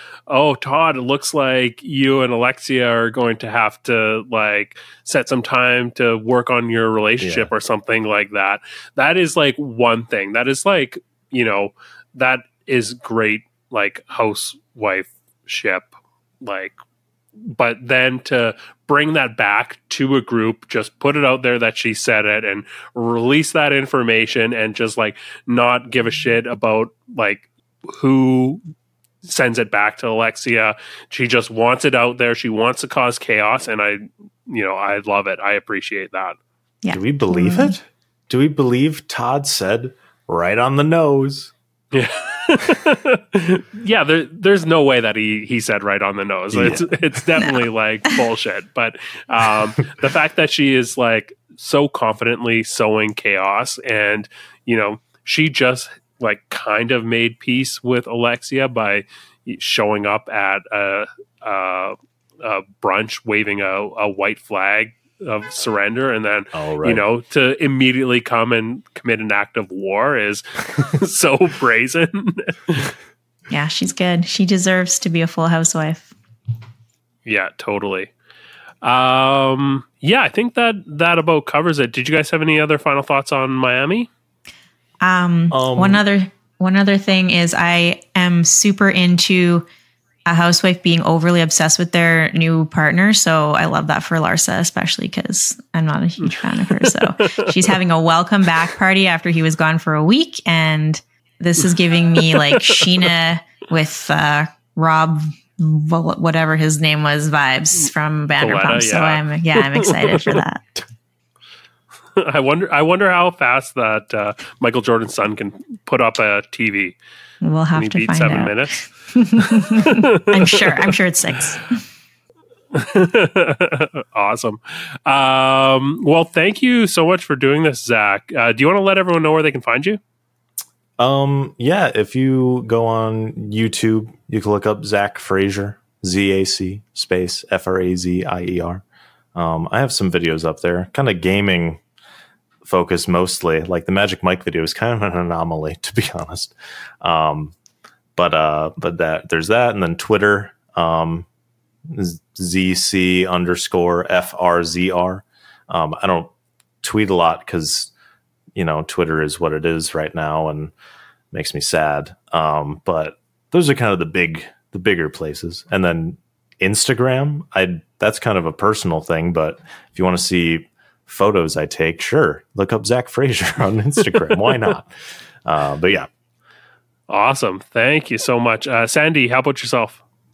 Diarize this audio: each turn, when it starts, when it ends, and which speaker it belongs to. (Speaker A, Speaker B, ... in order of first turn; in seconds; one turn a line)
Speaker A: 0.3-16.8
Speaker B: 7.2-7.5
Speaker A: 17.4-28.6
Speaker A: 29.2-36.4
Speaker C: 36.8-37.7
Speaker B: 36.9-41.5
Speaker A: 41.9-72.9
Speaker B: 46.5-46.9
Speaker C: 47.4-48.2
Speaker B: 66.5-67.0
Speaker C: 73.5-76.1
Speaker A: 77.2-78.1
Speaker A: 78.8-84.1
Speaker C: 85.0-89.7
Speaker B: 85.5-86.0
Speaker C: 90.2-110.6
Speaker A: 96.8-97.7
Speaker A: 102.3-103.0
Speaker A: 108.4-110.4
Speaker A: 112.2-117.0
Speaker C: 117.4-121.8
Speaker A: 117.7-118.8
Speaker A: 119.3-120.9
Speaker A: 122.7-130.0
Speaker B: 131.0-138.8
Speaker B: 139.3-141.8
Speaker B: 142.6-147.5
Speaker B: 148.2-151.3
Speaker B: 151.9-157.9
Speaker B: 158.5-160.7
Speaker B: 161.3-174.9
Speaker B: 175.4-176.1
Speaker A: 177.1-180.0